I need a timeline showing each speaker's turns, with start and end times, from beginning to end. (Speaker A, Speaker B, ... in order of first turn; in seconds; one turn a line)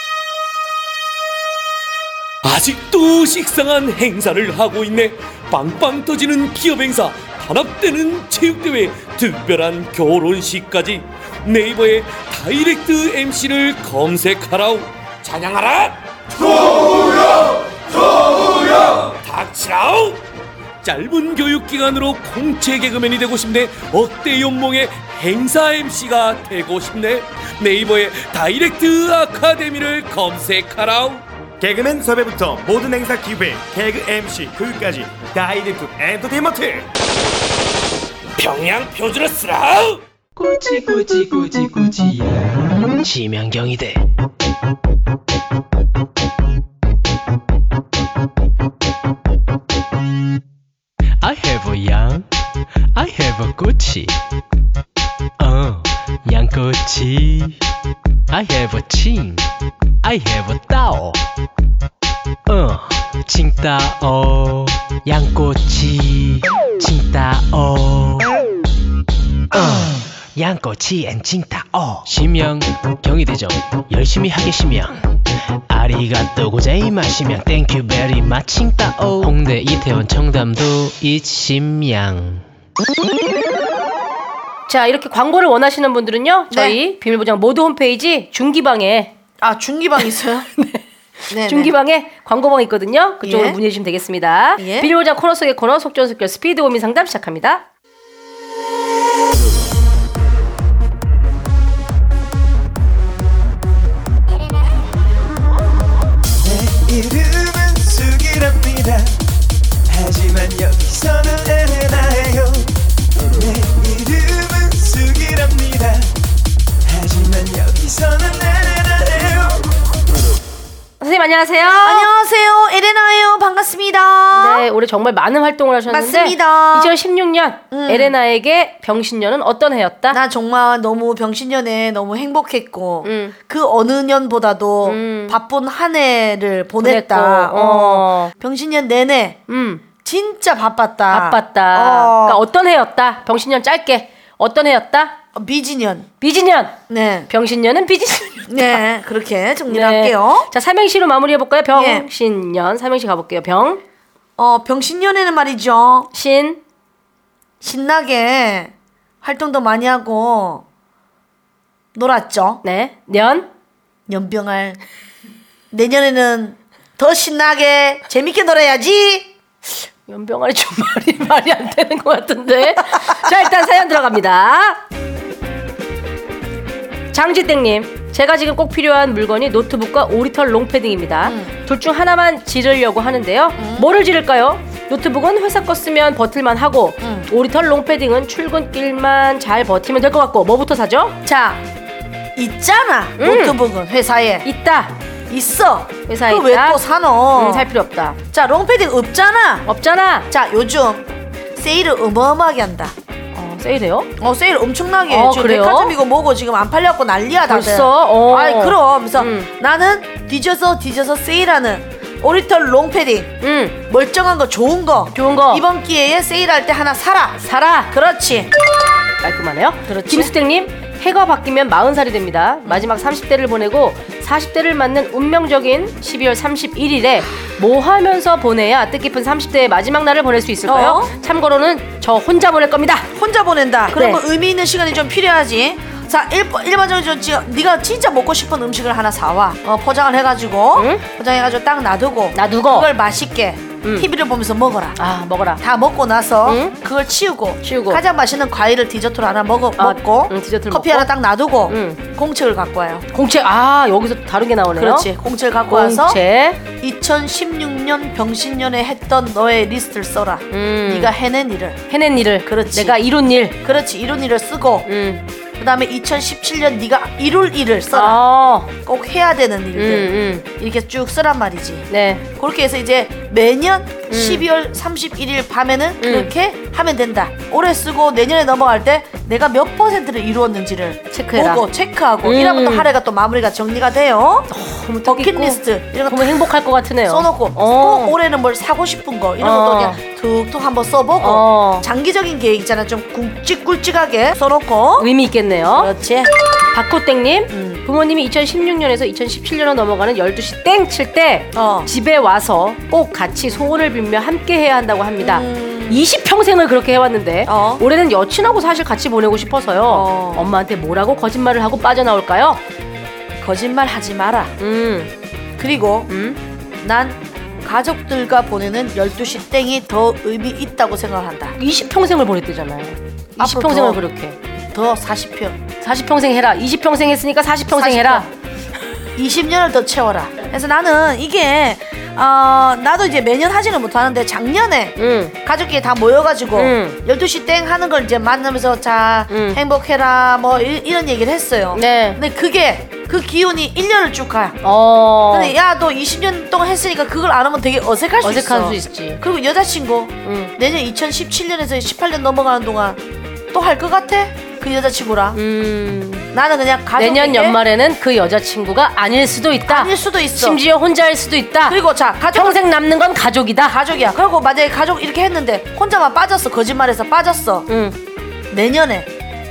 Speaker A: 2.4-20.2
Speaker A: 20.8-31.2
Speaker B: 31.6-36.9
Speaker A: 38.4-40.0
Speaker C: 40.4-44.0
Speaker C: 51.2-52.3
Speaker C: 52.9-54.2
Speaker C: 55.4-57.6
Speaker C: 58.3-59.5
Speaker C: 60.0-61.2
Speaker C: 62.5-68.3
Speaker C: 69.5-75.2
Speaker C: 75.7-82.4
Speaker D: 84.7-89.1
Speaker E: 86.5-86.8
Speaker E: 89.4-90.5
Speaker D: 90.6-97.7
Speaker E: 91.3-91.7
Speaker E: 93.2-93.6
Speaker E: 94.6-94.9
Speaker F: 106.4-109.2
Speaker F: 109.9-112.8
Speaker F: 113.3-116.1
Speaker F: 116.8-119.6
Speaker D: 121.0-122.1
Speaker E: 121.8-124.7
Speaker D: 124.3-130.2
Speaker E: 125.9-126.9
Speaker E: 127.7-128.1
Speaker E: 130.1-139.4
Speaker D: 133.0-133.3
Speaker D: 134.8-135.4
Speaker D: 136.8-138.3
Speaker D: 139.5-139.8
Speaker E: 140.0-142.4
Speaker D: 141.1-145.2
Speaker E: 145.3-146.1
Speaker D: 146.2-148.8
Speaker E: 146.9-147.3
Speaker E: 148.5-150.5
Speaker D: 149.7-153.8
Speaker E: 151.7-152.1
Speaker E: 154.4-156.1
Speaker D: 156.1-156.6
Speaker E: 157.6-160.6
Speaker E: 161.9-162.6
Speaker D: 162.6-163.5
Speaker E: 164.1-164.8
Speaker E: 165.7-169.3
Speaker D: 170.1-174.8
Speaker D: 177.1-191.2
Speaker E: 181.2-181.5
Speaker E: 183.6-183.9
Speaker E: 187.0-187.3
Speaker E: 191.2-191.6
Speaker E: 192.3-194.4
Speaker D: 193.2-193.6
Speaker D: 194.4-194.9
Speaker E: 195.3-197.7
Speaker D: 196.1-196.8
Speaker D: 197.3-198.2
Speaker E: 198.3-199.6
Speaker D: 199.6-200.3
Speaker E: 200.3-202.9
Speaker D: 203.3-204.1
Speaker E: 204.2-213.3
Speaker D: 205.1-205.9
Speaker D: 207.4-209.5
Speaker D: 213.4-213.8
Speaker E: 213.9-217.4
Speaker D: 215.1-215.6
Speaker D: 217.4-217.9
Speaker E: 217.9-218.5
Speaker D: 219.2-233.1
Speaker E: 220.1-220.3
Speaker E: 230.6-231.1
Speaker E: 233.1-245.0
Speaker D: 233.9-234.2
Speaker D: 240.8-241.0
Speaker D: 242.3-242.9
Speaker D: 243.8-244.1
Speaker D: 245.0-245.6
Speaker E: 245.6-253.1
Speaker D: 246.4-246.8
Speaker D: 247.6-248.0
Speaker D: 249.8-251.1
Speaker D: 251.7-252.0
Speaker D: 253.1-255.1
Speaker E: 254.7-256.2
Speaker D: 255.7-256.6
Speaker E: 256.8-261.8
Speaker D: 260.5-261.1
Speaker D: 261.9-263.6
Speaker E: 262.4-263.0
Speaker E: 263.6-264.9
Speaker D: 264.8-265.2
Speaker E: 265.6-268.2
Speaker D: 267.9-268.7
Speaker E: 268.8-284.5
Speaker D: 269.8-270.4
Speaker D: 271.9-272.2
Speaker D: 274.1-274.4
Speaker D: 276.0-276.3
Speaker D: 281.1-281.6
Speaker D: 282.2-282.9
Speaker D: 284.5-288.1
Speaker E: 285.0-286.4
Speaker E: 287.1-295.1
Speaker D: 289.4-290.0
Speaker D: 291.2-291.9
Speaker D: 295.0-295.9
Speaker E: 295.7-296.3
Speaker D: 296.7-312.6
Speaker E: 297.5-297.8
Speaker E: 301.5-301.9
Speaker E: 305.2-306.0
Speaker E: 307.4-307.8
Speaker E: 309.9-310.5
Speaker E: 313.4-314.5
Speaker D: 314.6-315.1
Speaker E: 315.6-316.1
Speaker D: 316.1-316.4
Speaker E: 316.8-321.6
Speaker D: 321.6-324.4
Speaker E: 323.4-324.0
Speaker E: 324.7-325.6
Speaker D: 325.8-328.3
Speaker E: 327.7-328.3
Speaker E: 329.1-344.6
Speaker D: 335.0-335.3
Speaker D: 336.6-337.0
Speaker D: 339.3-339.6
Speaker D: 341.7-342.2
Speaker D: 344.6-345.5
Speaker E: 345.3-353.0
Speaker D: 348.2-349.2
Speaker D: 350.2-350.5
Speaker E: 353.5-355.4
Speaker D: 355.3-356.3
Speaker E: 356.3-357.6
Speaker D: 357.0-361.8
Speaker E: 359.7-360.6
Speaker E: 361.6-362.6
Speaker D: 362.3-363.8
Speaker E: 363.6-367.6
Speaker D: 367.7-368.0
Speaker E: 368.5-369.1